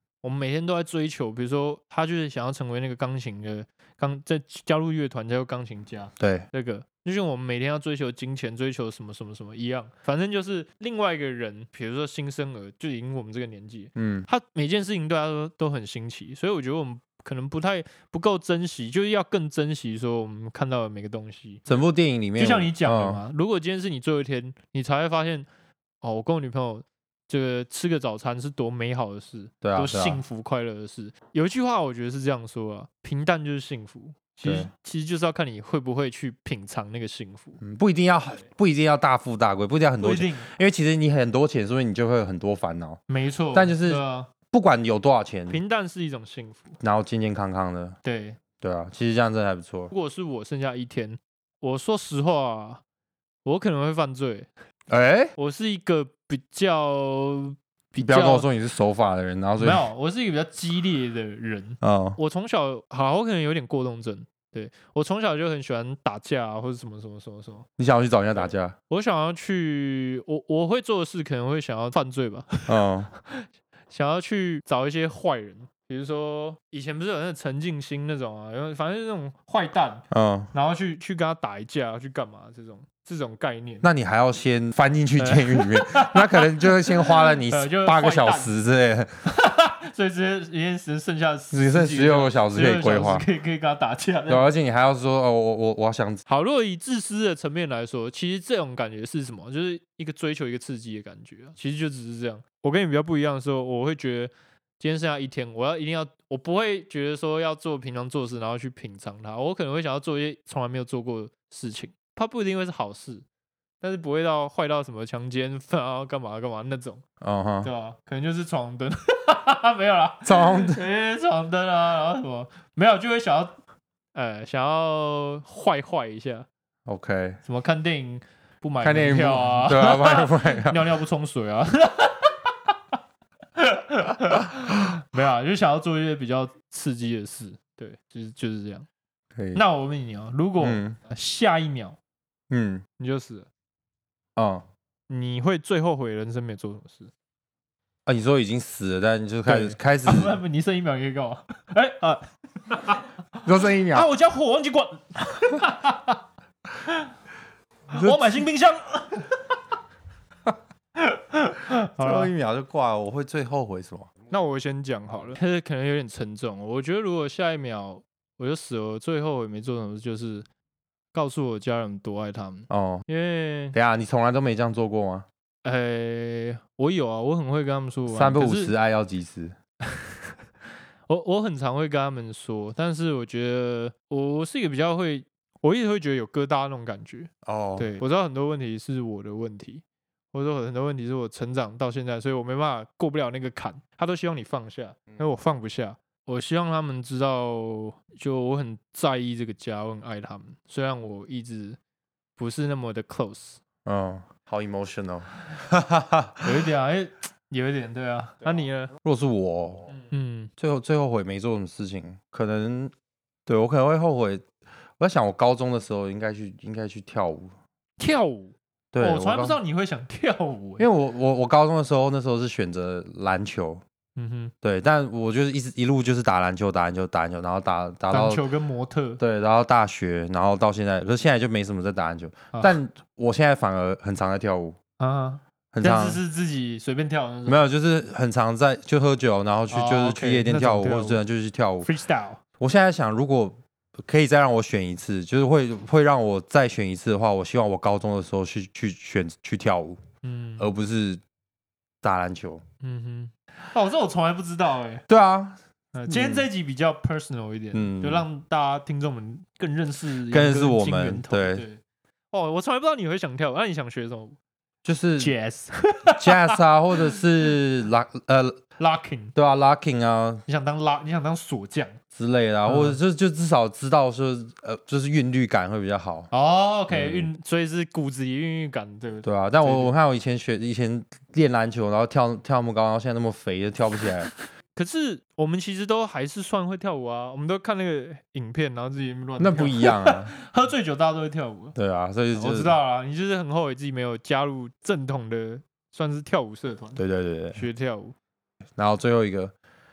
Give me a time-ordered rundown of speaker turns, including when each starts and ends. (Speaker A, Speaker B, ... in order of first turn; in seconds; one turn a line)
Speaker A: 0.2-21.6
Speaker B: 6.2-6.5
Speaker B: 13.9-14.3
Speaker B: 21.7-23.2
Speaker A: 22.4-25.5
Speaker A: 26.0-37.6
Speaker B: 29.6-30.2
Speaker B: 34.4-34.7
Speaker B: 37.6-43.0
Speaker A: 40.0-40.5
Speaker A: 43.1-44.3
Speaker B: 43.5-45.6
Speaker A: 45.5-46.8
Speaker B: 46.8-48.0
Speaker A: 48.0-48.4
Speaker B: 48.6-49.9
Speaker A: 49.9-52.8
Speaker A: 53.4-54.5
Speaker B: 54.9-55.3
Speaker A: 55.4-58.5
Speaker B: 58.0-59.8
Speaker A: 59.6-67.7
Speaker B: 61.8-62.2
Speaker B: 67.8-68.7
Speaker A: 68.4-83.8
Speaker B: 72.7-73.1
Speaker B: 80.1-80.5
Speaker B: 83.8-89.1
Speaker A: 85.2-88.5
Speaker A: 89.2-94.4
Speaker B: 91.5-93.2
Speaker B: 94.3-96.2
Speaker A: 96.3-113.2
Speaker A: 113.8-117.0
Speaker B: 117.2-117.7
Speaker A: 117.6-123.5
Speaker B: 120.2-120.8
Speaker A: 124.1-126.5
Speaker B: 126.9-127.4
Speaker A: 127.4-132.5
Speaker B: 128.8-131.0
Speaker A: 133.6-138.9
Speaker B: 139.3-139.6
Speaker A: 139.5-142.0
Speaker B: 140.6-141.0
Speaker B: 142.5-142.8
Speaker A: 143.0-143.5
Speaker B: 144.3-144.6
Speaker A: 145.1-147.1
Speaker B: 148.1-150.4
Speaker A: 149.4-153.0
Speaker B: 153.4-154.1
Speaker A: 153.7-156.2
Speaker A: 157.9-159.4
Speaker B: 157.9-158.4
Speaker A: 160.9-162.3
Speaker B: 161.9-164.1
Speaker A: 164.3-170.5
Speaker A: 171.1-173.8
Speaker B: 172.7-173.0
Speaker B: 173.7-175.2
Speaker A: 175.6-178.7
Speaker B: 178.1-179.5
Speaker A: 181.1-201.8
Speaker B: 187.4-187.9
Speaker A: 202.4-203.6
Speaker B: 203.8-206.5
Speaker A: 206.4-208.9
Speaker B: 209.0-209.9
Speaker A: 209.9-210.5
Speaker B: 210.6-212.9
Speaker B: 213.5-214.4
Speaker B: 215.0-217.5
Speaker A: 218.0-220.9
Speaker B: 218.9-219.6
Speaker B: 220.8-223.8
Speaker A: 224.2-224.5
Speaker B: 224.6-228.4
Speaker A: 228.1-229.2
Speaker B: 229.2-234.8
Speaker A: 235.0-237.6
Speaker B: 235.7-236.2
Speaker B: 237.5-241.9
Speaker A: 239.7-241.2
Speaker A: 241.8-242.4
Speaker B: 242.6-250.0
Speaker A: 250.2-250.7
Speaker B: 250.6-251.2
Speaker B: 252.0-252.6
Speaker A: 252.8-255.0
Speaker B: 255.1-256.5
Speaker A: 255.9-261.8
Speaker B: 257.7-258.2
Speaker B: 260.3-261.6
Speaker A: 262.3-264.4
Speaker B: 264.8-265.3
Speaker A: 265.2-267.2
Speaker B: 266.1-268.6
Speaker A: 268.8-269.3
Speaker B: 269.3-270.4
Speaker A: 270.5-272.0
Speaker B: 272.1-276.3
Speaker A: 272.6-273.0
Speaker A: 276.3-279.9
Speaker B: 276.9-277.3
Speaker B: 279.2-284.3
Speaker A: 284.7-291.7
Speaker B: 289.4-290.3
Speaker B: 291.7-292.8
Speaker A: 292.3-297.0
Speaker B: 296.9-297.6
Speaker A: 297.5-298.1
Speaker B: 298.8-299.5